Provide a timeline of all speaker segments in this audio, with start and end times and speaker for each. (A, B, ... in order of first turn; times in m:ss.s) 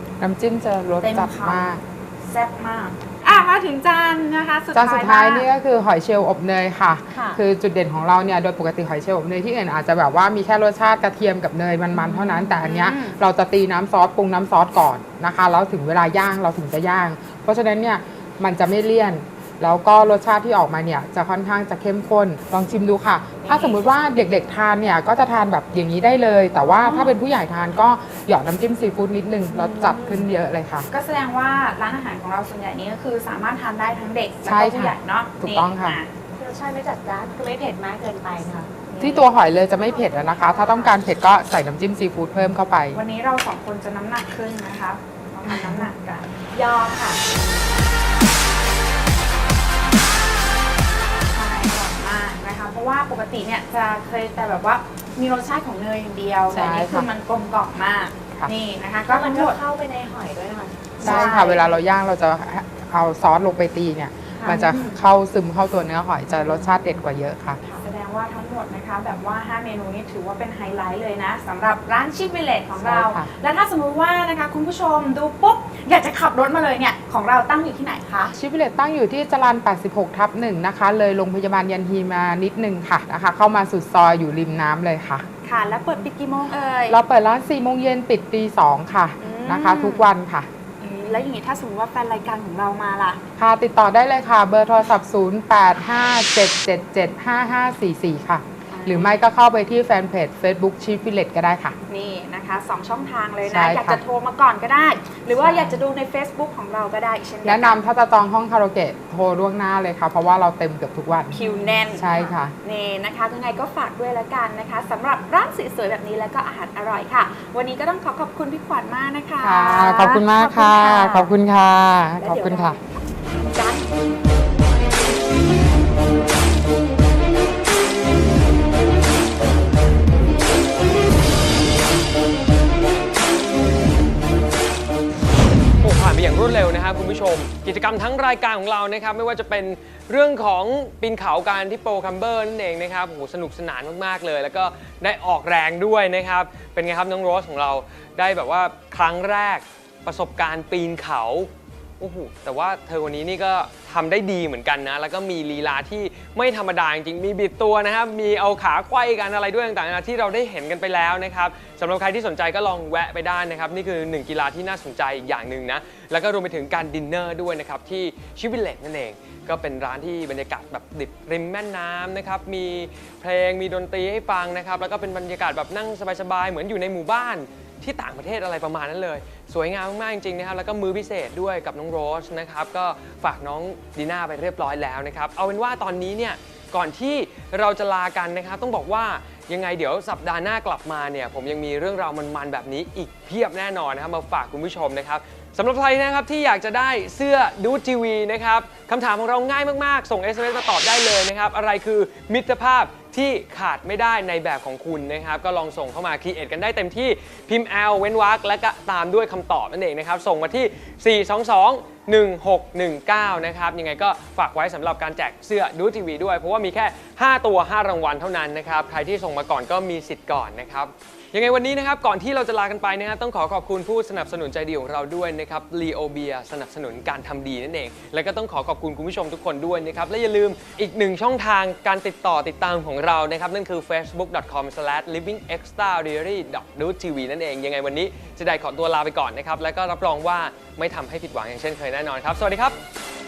0:00.2-0:01.8 A
0:01.0-0:05.5 B
0:04.7-0:30.9 A
0:07.1-0:07.4 C
0:11.9-0:13.2 B
0:26.8-0:27.1 B
0:29.5-0:30.2 C
0:30.9-0:36.1 B
0:34.4-0:36.0 A
0:36.4-0:41.0 C
0:39.0-0:43.0 A
0:42.9-0:46.3 B
0:45.5-0:45.8 C
0:46.5-0:47.4 C
0:51.3-0:59.6 B
0:56.5-0:57.1 A
0:59.1-1:01.0 C
1:01.0-1:01.7 B
1:01.0-1:07.6 A
1:04.4-1:05.0 B
1:07.7-1:18.3 B
1:12.8-1:13.3 A
1:18.3-1:25.2 A
1:25.4-1:27.0 B
1:26.9-1:30.5 A
1:29.2-1:30.1 B
1:30.8-1:33.2 B
1:33.4-1:41.8 A
1:38.7-1:39.2 B
1:41.9-1:47.8 B
1:43.4-1:44.0 A
1:45.4-1:45.7 A
1:47.4-1:51.4 A
1:51.3-1:52.0 B
1:51.4-1:52.3 C
1:51.9-1:52.5 A
1:52.6-2:01.4 B
1:59.4-2:02.8 A
2:02.2-2:03.9 B
2:15.8-4:02.8 D